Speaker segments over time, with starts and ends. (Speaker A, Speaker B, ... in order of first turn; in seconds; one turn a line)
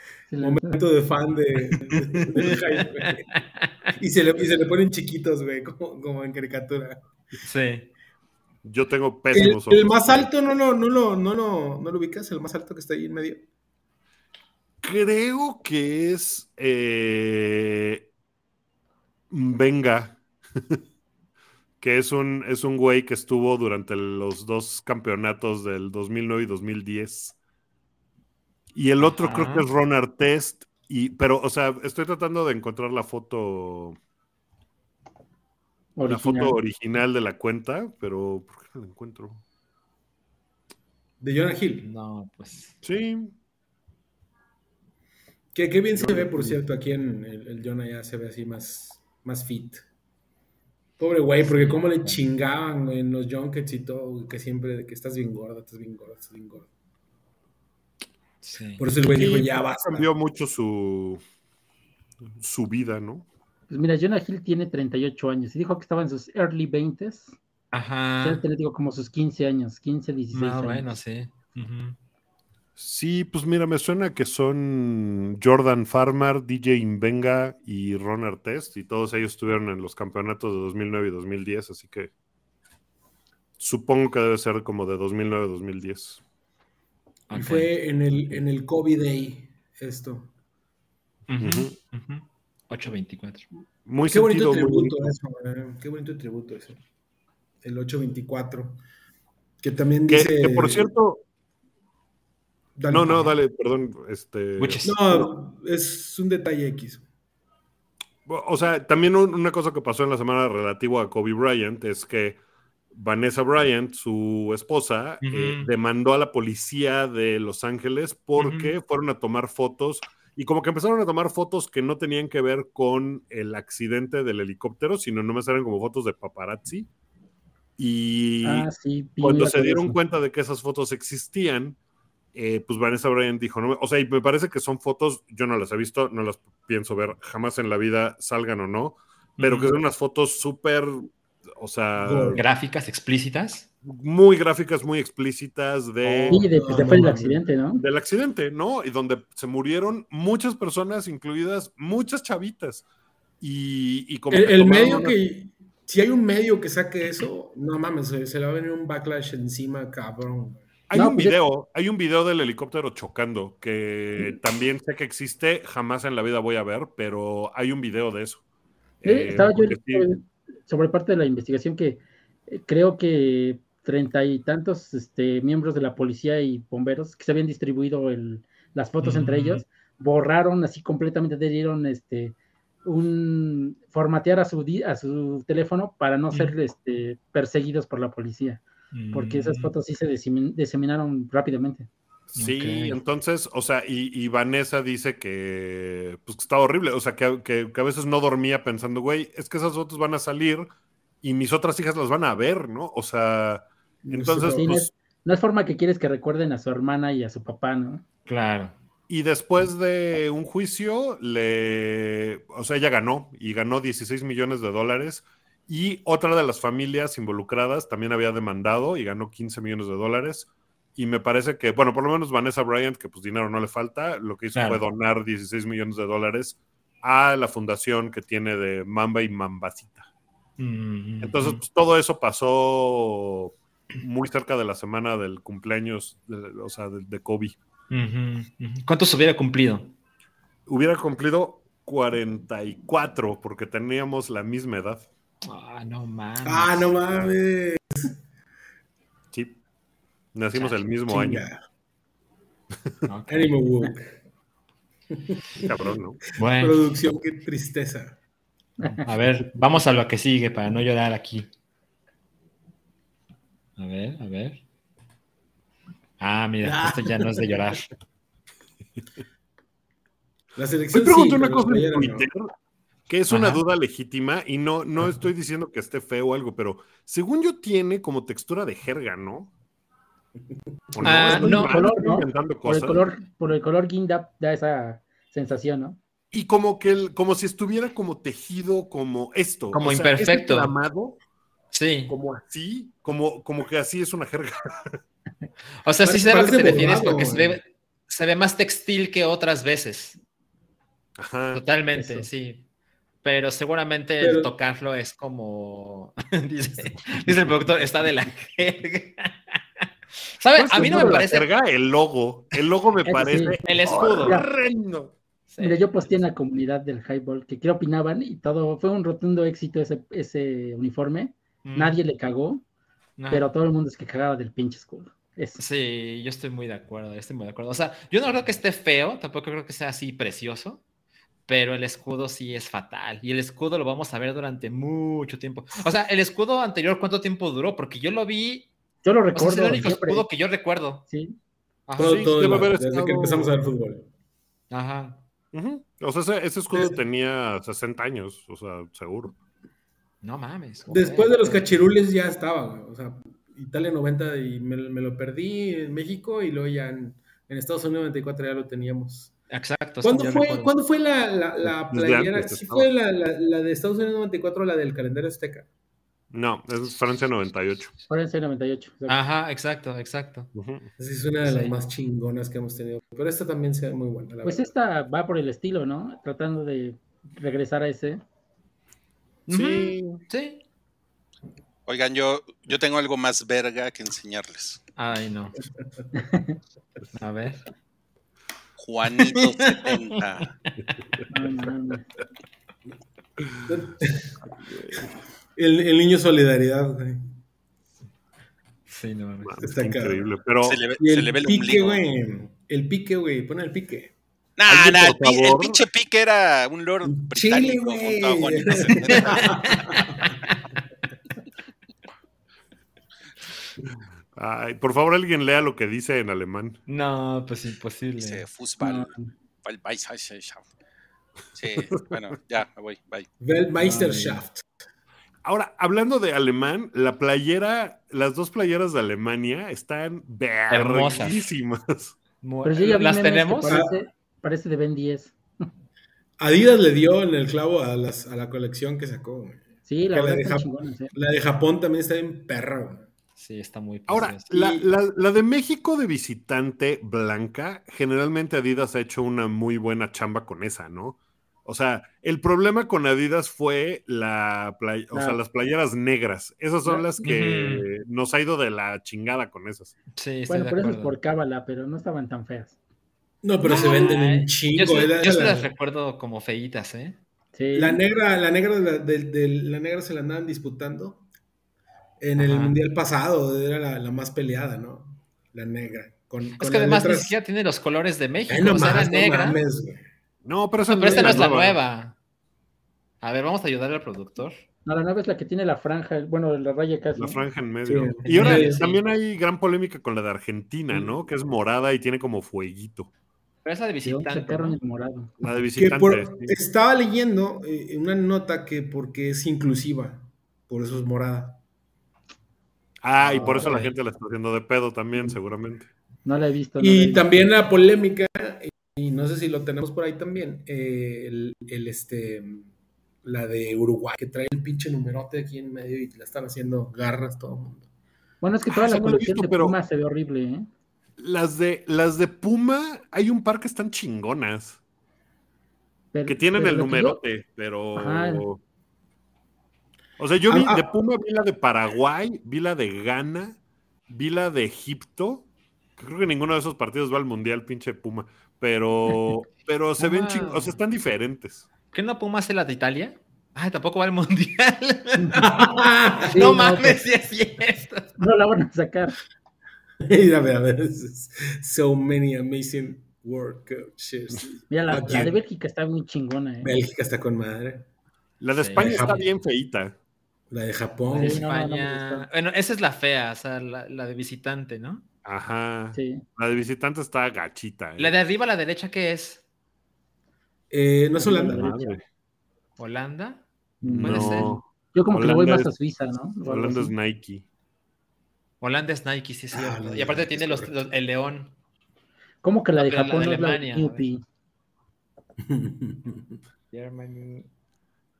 Speaker A: 0.3-0.8
Speaker B: 0.4-3.3
Speaker C: 2.3-3.7
Speaker B: 3.9-7.0
Speaker C: 7.4-7.9
Speaker D: 8.6-10.3
Speaker B: 9.3-13.4
Speaker D: 14.8-18.1
Speaker D: 19.3-20.8
Speaker D: 21.8-27.4
Speaker D: 28.7-34.0
Speaker C: 29.0-29.6
Speaker A: 36.0-36.6
Speaker D: 36.0-39.4
Speaker B: 41.2-41.9
Speaker C: 41.8-42.8
Speaker D: 42.8-43.3
Speaker B: 45.5-49.8
Speaker D: 45.9-46.6
Speaker B: 51.0-56.7
Speaker C: 51.4-52.2
Speaker C: 58.4-58.8
Speaker B: 58.8-60.1
Speaker D: 59.1-61.2
Speaker D: 62.4-63.3
Speaker A: 63.7-67.3
Speaker C: 67.7-68.4
Speaker A: 68.2-70.9
Speaker C: 70.3-72.0
Speaker D: 72.8-82.1
Speaker D: 83.6-86.2
Speaker C: 87.3-87.7
Speaker B: 87.3-90.3
Speaker C: 91.3-93.5
Speaker D: 91.4-91.7
Speaker D: 93.8-95.1
Speaker B: 94.1-96.8
Speaker B: 97.6-98.8
Speaker B: 99.6-100.9
Speaker D: 100.1-101.2
Speaker B: 102.8-103.2
Speaker D: 102.9-105.3
Speaker C: 104.6-104.9
Speaker B: 104.8-107.0
Speaker D: 108.2-112.4
Speaker D: 112.9-126.9
Speaker C: 115.2-115.7
Speaker C: 118.4-118.7
Speaker D: 127.8-128.7
Speaker A: 128.4-130.0
Speaker D: 129.2-131.8
Speaker D: 132.3-142.4
Speaker C: 139.4-139.8
Speaker B: 142.0-142.4
Speaker C: 142.3-143.7
Speaker D: 143.8-147.2
Speaker B: 146.0-147.4
Speaker A: 146.3-147.8
Speaker D: 147.8-152.8
Speaker D: 153.4-155.2
Speaker B: 154.3-160.7
Speaker D: 160.9-168.4
Speaker A: 160.9-161.4
Speaker D: 169.0-170.1
Speaker A: 169.0-191.9
Speaker C: 179.0-179.6
Speaker C: 188.9-189.7
Speaker D: 192.3-200.7
Speaker C: 192.4-193.0
Speaker D: 201.2-204.9
Speaker B: 204.0-204.8
Speaker A: 204.4-208.0
Speaker C: 208.3-208.8
Speaker D: 209.1-230.1
Speaker C: 224.5-224.8
Speaker C: 230.6-231.6
Speaker D: 231.2-237.6
Speaker C: 237.9-239.9
Speaker D: 240.7-245.1
Speaker C: 245.4-246.9
Speaker B: 246.4-248.1
Speaker D: 249.3-249.6
Speaker D: 250.3-251.4
Speaker B: 251.1-251.6
Speaker C: 253.1-253.5
Speaker B: 253.3-254.2
Speaker B: 255.1-255.8
Speaker D: 255.6-256.2
Speaker C: 256.4-256.8
Speaker B: 256.4-258.2
Speaker A: 258.8-259.1
Speaker C: 258.9-261.5
Speaker C: 263.8-264.6
Speaker C: 266.2-267.9
Speaker B: 266.6-267.5
Speaker B: 270.6-272.3
Speaker D: 270.9-272.5
Speaker D: 273.1-279.5
Speaker C: 273.3-273.6
Speaker D: 280.9-283.0
Speaker C: 281.0-281.7
Speaker A: 281.3-286.0
Speaker D: 286.3-291.2
Speaker C: 289.7-290.7
Speaker C: 291.7-292.1
Speaker D: 292.1-295.0
Speaker C: 295.8-300.2
Speaker B: 296.0-297.6
Speaker D: 301.2-301.6
Speaker C: 301.5-302.6
Speaker A: 301.9-302.3
Speaker C: 303.2-309.4
Speaker B: 304.2-304.5
Speaker C: 310.4-311.5
Speaker D: 310.6-315.1
Speaker A: 310.8-311.2
Speaker A: 313.1-313.6
Speaker C: 313.6-314.4
Speaker C: 315.5-316.2
Speaker A: 315.6-322.6
Speaker C: 321.6-322.0
Speaker C: 323.2-323.5
Speaker A: 323.3-325.6
Speaker C: 325.6-330.8
Speaker C: 331.5-338.7
Speaker A: 339.0-340.2
Speaker C: 339.3-341.0
Speaker A: 341.1-341.4
Speaker C: 341.9-342.7
Speaker B: 342.0-344.1
Speaker D: 342.0-343.5
Speaker C: 344.7-345.2
Speaker D: 345.5-349.3
Speaker C: 350.2-351.6
Speaker B: 350.9-359.3
Speaker C: 359.5-360.8
Speaker B: 360.0-365.7
Speaker D: 361.6-362.9
Speaker D: 366.3-367.9
Speaker A: 368.1-369.2
Speaker C: 369.1-370.5
Speaker D: 370.5-370.9
Speaker B: 371.0-374.7
Speaker C: 371.4-371.7
Speaker A: 374.4-378.2
Speaker C: 379.5-380.6
Speaker D: 379.5-380.2
Speaker E: 381.9-384.8
Speaker C: 384.9-385.6
Speaker A: 386.1-386.6
Speaker C: 387.1-387.6
Speaker E: 388.8-390.5
Speaker C: 389.2-390.0
Speaker A: 391.3-392.1
Speaker B: 393.6-394.3
Speaker D: 394.6-395.1
Speaker B: 395.6-397.2
Speaker C: 398.9-399.6
Speaker D: 399.4-400.8
Speaker B: 399.6-400.3
Speaker E: 400.6-402.0
Speaker B: 401.0-404.1
Speaker E: 404.6-409.6
Speaker D: 404.7-405.8
Speaker B: 407.1-410.3
Speaker C: 409.4-409.9
Speaker D: 414.3-416.8
Speaker C: 416.9-418.4
Speaker E: 418.2-420.6
Speaker A: 418.8-419.3
Speaker E: 421.5-423.3
Speaker B: 423.4-424.6
Speaker C: 423.8-424.4
Speaker D: 425.4-432.1
Speaker C: 430.7-431.4
Speaker C: 432.4-433.8
Speaker A: 432.6-435.7
Speaker B: 433.7-433.9
Speaker B: 436.4-443.1
Speaker A: 439.9-441.1
Speaker C: 443.4-444.5
Speaker D: 444.1-459.9
Speaker B: 444.5-444.9
Speaker A: 455.1-455.4
Speaker C: 457.2-457.9
Speaker C: 460.1-461.1
Speaker A: 460.5-462.8
Speaker B: 463.4-465.7
Speaker C: 463.6-467.2
Speaker A: 467.5-468.0
Speaker B: 467.7-471.2
Speaker B: 472.2-477.3
Speaker C: 472.4-472.8
Speaker C: 476.6-479.6
Speaker B: 478.5-480.0
Speaker D: 480.4-481.8
Speaker C: 480.9-482.1
Speaker B: 481.1-481.4
Speaker C: 483.2-484.6
Speaker A: 484.8-487.4
Speaker D: 487.1-493.1
Speaker B: 487.9-488.9
Speaker C: 488.2-489.0
Speaker C: 493.6-494.8
Speaker A: 494.0-495.3
Speaker D: 495.4-496.6
Speaker B: 495.8-501.6
Speaker D: 503.0-505.9
Speaker C: 503.2-503.9
Speaker A: 503.4-503.9
Speaker A: 506.2-507.3
Speaker B: 506.8-512.7
Speaker B: 513.2-517.8
Speaker A: 518.4-520.7
Speaker D: 518.7-519.8
Speaker D: 521.2-524.8
Speaker A: 526.1-527.2
Speaker D: 526.2-528.6
Speaker A: 527.9-528.4
Speaker D: 530.2-533.6
Speaker B: 530.5-530.8
Speaker D: 534.1-541.6
Speaker C: 540.0-540.8
Speaker C: 541.9-545.5
Speaker A: 545.2-545.4
Speaker B: 545.4-546.4
Speaker C: 546.2-548.1
Speaker A: 546.2-547.0
Speaker A: 548.2-549.1
Speaker B: 550.0-555.4
Speaker A: 554.7-556.7
Speaker B: 556.6-557.9
Speaker D: 558.4-559.9
Speaker C: 558.6-559.2
Speaker B: 558.8-559.2
Speaker B: 560.5-561.4
Speaker A: 561.1-562.3
Speaker C: 561.1-565.0
Speaker D: 565.2-568.1
Speaker A: 565.9-566.2
Speaker C: 568.0-569.4
Speaker B: 570.7-571.7
Speaker A: 571.2-572.0
Speaker D: 571.4-572.0
Speaker C: 572.8-574.6
Speaker A: 573.8-576.9
Speaker D: 574.0-575.7
Speaker D: 576.4-577.4
Speaker C: 578.6-581.5
Speaker B: 579.5-580.8
Speaker A: 582.4-584.2
Speaker C: 582.8-584.1
Speaker B: 585.4-586.3
Speaker C: 586.7-587.5